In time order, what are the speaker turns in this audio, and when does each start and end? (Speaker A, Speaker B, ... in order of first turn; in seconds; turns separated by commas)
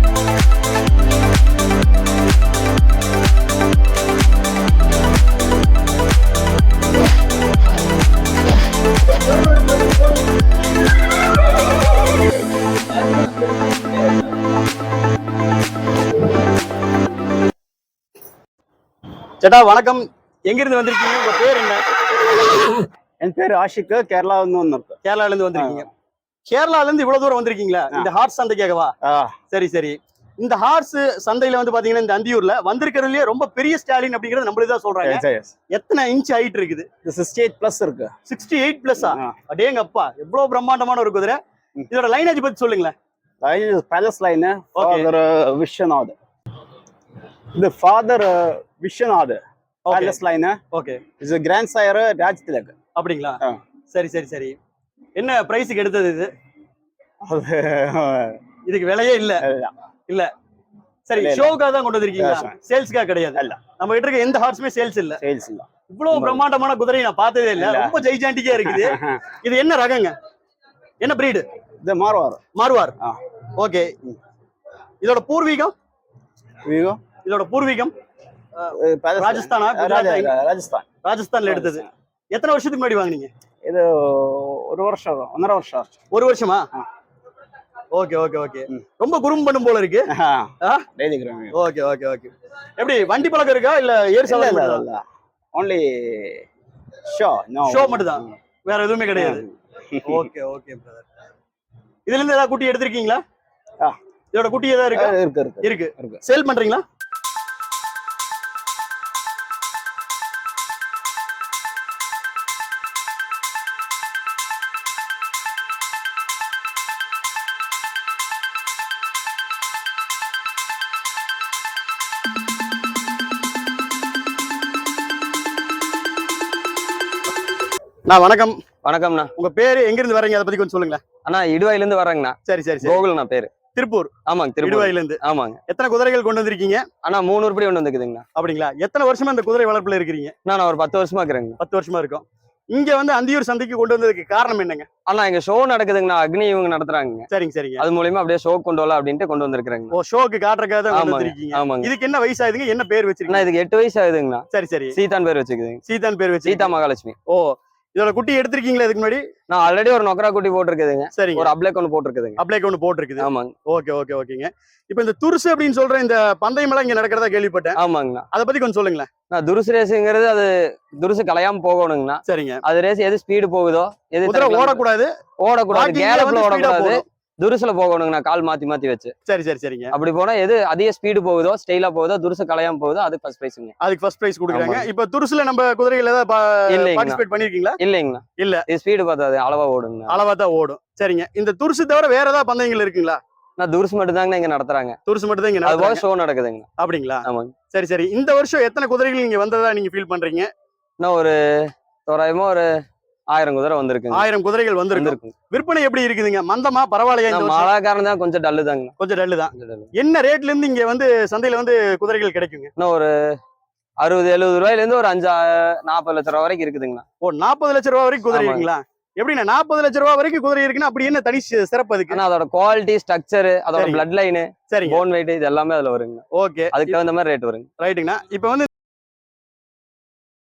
Speaker A: 19.4-21.8, Speaker B: 23.2-25.0, Speaker A: 25.0-25.9, Speaker B: 25.6-25.9, Speaker A: 26.5-28.9, Speaker B: 29.0-29.4, Speaker A: 29.5-36.9, Speaker B: 35.0-35.5, Speaker B: 37.0-38.1, Speaker A: 38.3-41.4, Speaker B: 39.0-39.4, Speaker A: 41.9-43.0, Speaker B: 43.4-46.1, Speaker A: 44.8-45.1, Speaker B: 47.5-50.6, Speaker A: 49.9-50.2, Speaker A: 50.7-51.0, Speaker B: 51.2-52.8, Speaker A: 53.0-53.4, Speaker A: 53.9-54.6, Speaker A: 55.2-56.3, Speaker B: 57.2-58.4, Speaker A: 58.7-59.4, Speaker B: 59.4-59.8, Speaker A: 61.1-65.2, Speaker B: 61.2-61.5, Speaker B: 62.2-62.5, Speaker B: 65.2-65.7, Speaker A: 65.9-70.1, Speaker B: 67.6-67.9, Speaker B: 68.6-69.2, Speaker A: 71.0-71.5, Speaker B: 71.8-72.4, Speaker A: 72.5-73.0, Speaker A: 73.6-73.9, Speaker A: 75.0-75.7, Speaker B: 76.7-77.0, Speaker A: 77.2-77.9, Speaker A: 78.6-80.3, Speaker B: 78.7-80.9, Speaker A: 81.0-83.3, Speaker B: 81.5-81.8, Speaker B: 83.7-86.0, Speaker A: 86.1-86.6, Speaker A: 88.0-90.1, Speaker B: 90.1-91.5, Speaker A: 91.5-94.8, Speaker B: 94.3-96.5, Speaker B: 97.1-98.3, Speaker A: 97.7-99.5, Speaker B: 99.2-100.3, Speaker A: 100.0-101.0, Speaker A: 102.1-103.2, Speaker A: 104.3-106.8, Speaker B: 104.9-106.2, Speaker A: 128.1-128.6, Speaker C: 128.8-129.3, Speaker A: 129.4-131.0, Speaker C: 131.2-133.5, Speaker A: 132.5-133.0, Speaker A: 133.7-136.9, Speaker C: 134.3-135.6, Speaker C: 137.0-138.2, Speaker A: 138.4-140.3, Speaker C: 140.5-141.6, Speaker A: 141.6-144.9, Speaker C: 145.1-147.3, Speaker A: 147.3-147.8, Speaker C: 147.8-149.9, Speaker A: 149.9-153.5, Speaker C: 150.9-151.9, Speaker C: 153.3-155.8, Speaker A: 154.5-155.0, Speaker A: 155.9-156.7, Speaker C: 156.4-157.2, Speaker A: 157.3-159.2, Speaker C: 159.5-162.4, Speaker A: 161.2-161.5, Speaker A: 162.4-167.8, Speaker C: 163.2-163.5, Speaker C: 167.8-168.3, Speaker A: 168.3-169.1, Speaker C: 169.3-174.8, Speaker A: 172.3-172.6, Speaker A: 174.2-175.1, Speaker C: 175.4-179.1, Speaker A: 175.7-177.0, Speaker A: 179.3-179.9, Speaker C: 179.9-183.7, Speaker A: 183.8-187.8, Speaker C: 184.5-184.9, Speaker C: 186.7-187.2, Speaker C: 187.8-190.2, Speaker A: 188.4-188.7, Speaker A: 190.1-193.2, Speaker C: 193.6-195.0, Speaker A: 195.1-196.0, Speaker C: 195.6-196.7, Speaker A: 196.8-200.5, Speaker C: 197.2-197.5, Speaker C: 201.0-202.7, Speaker C: 203.3-204.3, Speaker A: 204.1-207.7, Speaker C: 204.9-205.3, Speaker C: 207.3-208.9, Speaker A: 209.0-212.7, Speaker C: 209.5-209.9, Speaker C: 212.8-213.1, Speaker C: 214.0-217.0, Speaker A: 217.2-222.2, Speaker C: 218.3-218.7, Speaker C: 222.1-227.7, Speaker A: 223.8-224.0, Speaker A: 224.7-225.0, Speaker A: 226.3-227.0, Speaker A: 227.8-228.7